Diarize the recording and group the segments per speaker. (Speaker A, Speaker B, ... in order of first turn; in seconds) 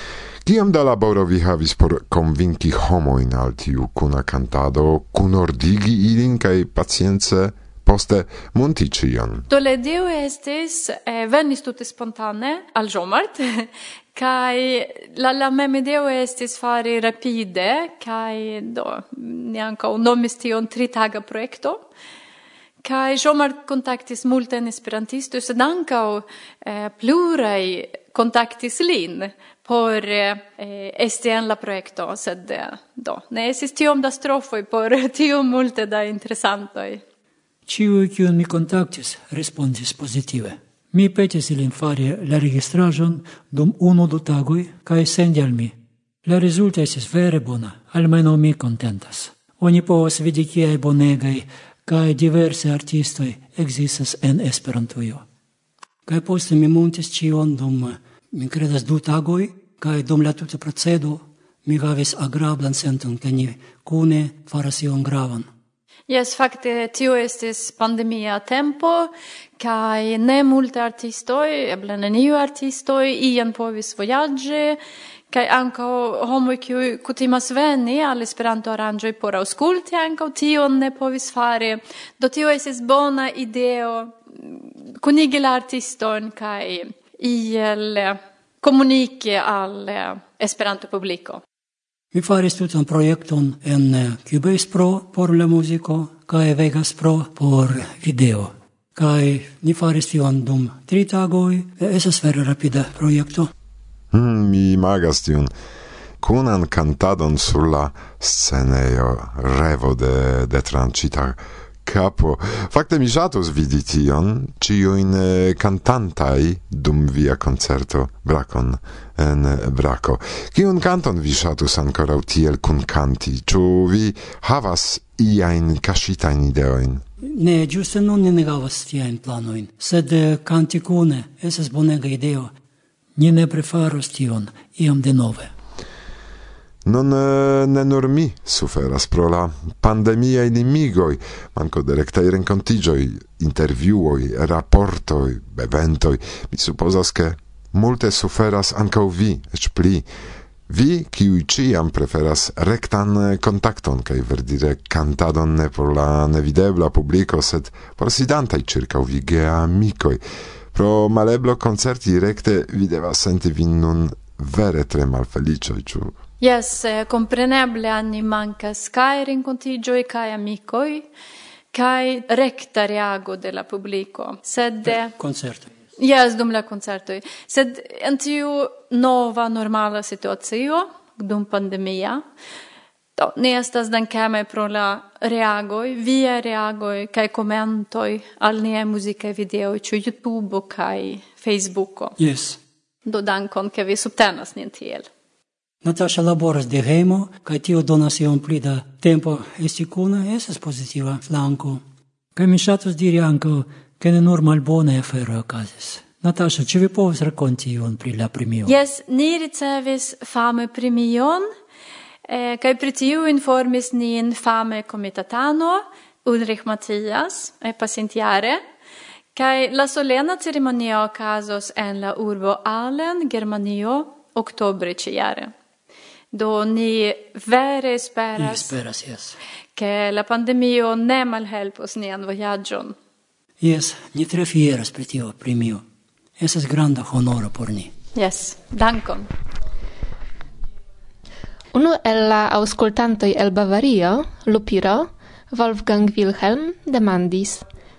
Speaker A: 0.4-9.5, 104.1-105.5, 106.2-127.0, 136.8-150.0, 150.7-160.2, 160.7-166.1
Speaker B: 9.5-21.8, 22.8-37.0, 66.1-74.8, 75.3-91.4, 166.4-171.1, 171.7-175.1, 176.0-182.2, 183.2-192.2, 193.1-195.1, 208.7-211.5, 212.3-218.6, 219.3-225.5, 226.3-228.7, 229.8-232.9, 238.1-239.3
Speaker C: 37.7-45.7, 46.2-55.2, 56.1-65.5, 92.1-103.5, 127.2-132.5, 133.2-135.5, 174.9-175.7, 192.2-192.6, 195.8-201.8, 202.3-208.7, 228.4-229.4, 233.6-235.8, 236.4-237.9
Speaker D: 241.7-247.6